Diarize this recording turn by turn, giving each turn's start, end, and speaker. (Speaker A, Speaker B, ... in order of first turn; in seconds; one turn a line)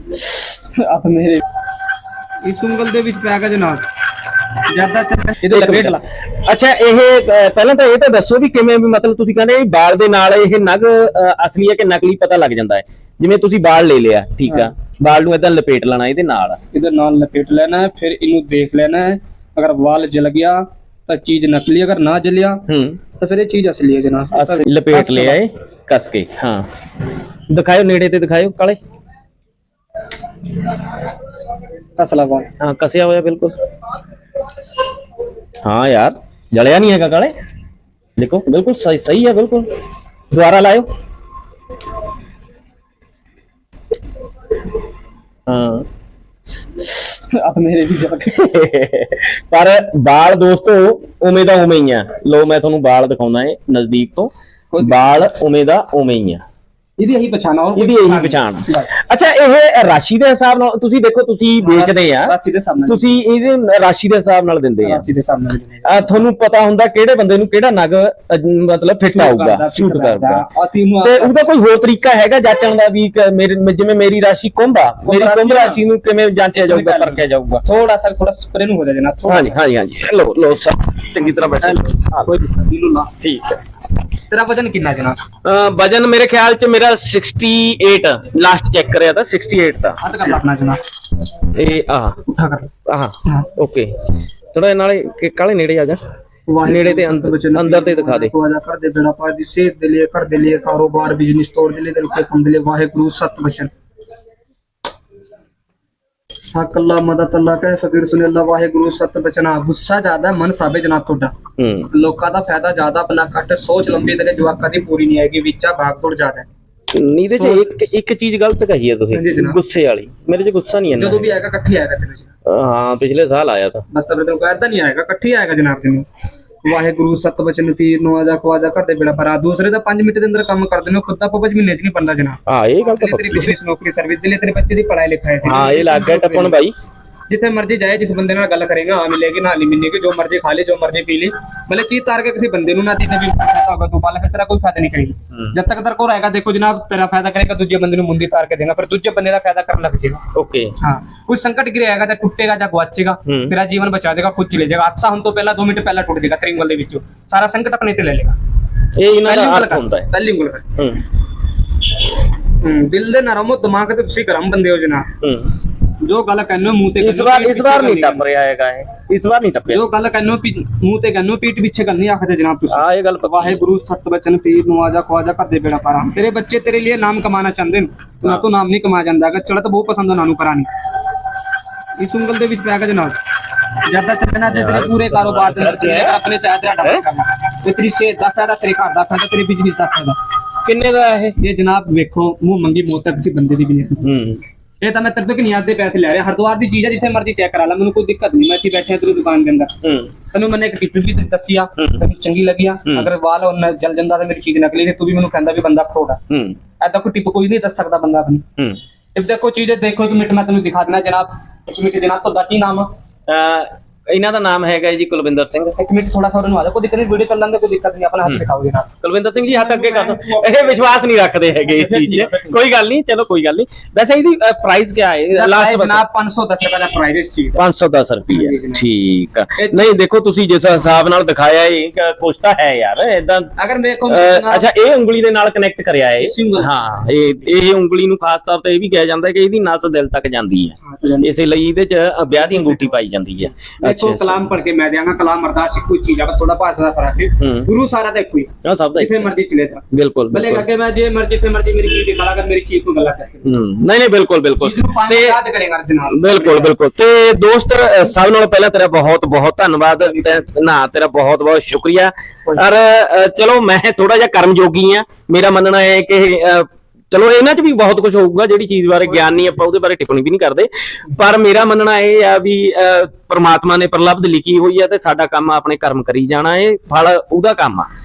Speaker A: 0.7-1.4
Speaker A: 2.4-3.9
Speaker A: 4.7-6.0
Speaker B: 5.5-16.6
Speaker A: 14.5-14.7
Speaker A: 16.7-22.6
Speaker B: 22.7-23.0
Speaker A: 23.2-25.4
Speaker B: 24.3-26.7
Speaker B: 27.5-28.8
Speaker A: 32.0-32.5
Speaker B: 32.6-33.5
Speaker B: 35.6-37.3
Speaker B: 38.2-39.7
Speaker B: 40.3-40.9
Speaker B: 45.5-45.9
Speaker A: 46.9-48.4
Speaker B: 48.3-56.4
Speaker A: 54.7-55.3
Speaker A: 57.0-58.9
Speaker B: 57.8-62.4
Speaker A: 61.6-63.1
Speaker B: 62.9-65.1
Speaker A: 64.8-66.2
Speaker B: 65.8-70.5
Speaker A: 69.1-71.4
Speaker B: 71.0-77.6
Speaker A: 75.0-75.8
Speaker A: 76.5-79.5
Speaker B: 79.2-82.3
Speaker A: 81.2-83.1
Speaker B: 83.2-83.6
Speaker A: 84.3-85.2
Speaker B: 85.4-90.0
Speaker A: 90.0-90.8
Speaker B: 91.4-92.2
Speaker A: 92.3-92.7
Speaker B: 92.9-96.0
Speaker A: 93.2-93.5
Speaker A: 96.5-103.7
Speaker B: 96.6-98.3
Speaker A: 106.5-111.3
Speaker B: 111.6-111.9
Speaker A: 111.9-116.5
Speaker B: 116.9-121.3
Speaker A: 117.3-117.7
Speaker A: 119.1-119.6
Speaker A: 121.0-122.3
Speaker B: 122.5-123.8
Speaker A: 123.9-126.1
Speaker A: 126.6-136.6
Speaker B: 132.5-133.6
Speaker B: 135.4-136.8
Speaker A: 137.3-150.2
Speaker B: 150.3-150.7
Speaker A: 150.8-158.4
Speaker B: 153.3-153.6
Speaker B: 159.0-160.1
Speaker A: 159.2-160.7
Speaker B: 160.8-161.0
Speaker A: 162.5-165.1
Speaker B: 165.2-165.5
Speaker A: 166.0-168.2
Speaker B: 167.0-169.8
Speaker A: 169.7-180.7
Speaker B: 172.7-173.6
Speaker A: 182.0-183.2
Speaker A: 183.8-190.2
Speaker B: 184.5-186.2
Speaker B: 190.7-191.4
Speaker A: 191.4-194.0
Speaker B: 194.0-194.4
Speaker A: 194.8-199.8
Speaker B: 199.8-200.1
Speaker A: 200.3-206.2
Speaker B: 206.3-206.6
Speaker A: 206.8-208.4
Speaker A: 209.2-212.9
Speaker B: 213.3-215.8
Speaker A: 215.8-218.9
Speaker B: 219.0-226.0
Speaker A: 219.4-221.1
Speaker A: 221.7-222.6
Speaker A: 225.3-227.6
Speaker B: 227.6-233.5
Speaker A: 228.3-228.8
Speaker A: 229.6-229.9
Speaker A: 233.6-234.7
Speaker B: 234.1-244.5
Speaker A: 236.2-236.8
Speaker A: 240.8-241.3
Speaker A: 242.3-242.9
Speaker A: 243.8-253.6
Speaker B: 247.4-247.7
Speaker B: 248.6-249.2
Speaker B: 249.9-250.7
Speaker B: 253.4-255.4
Speaker A: 254.6-256.8
Speaker B: 256.1-277.9
Speaker A: 260.0-260.4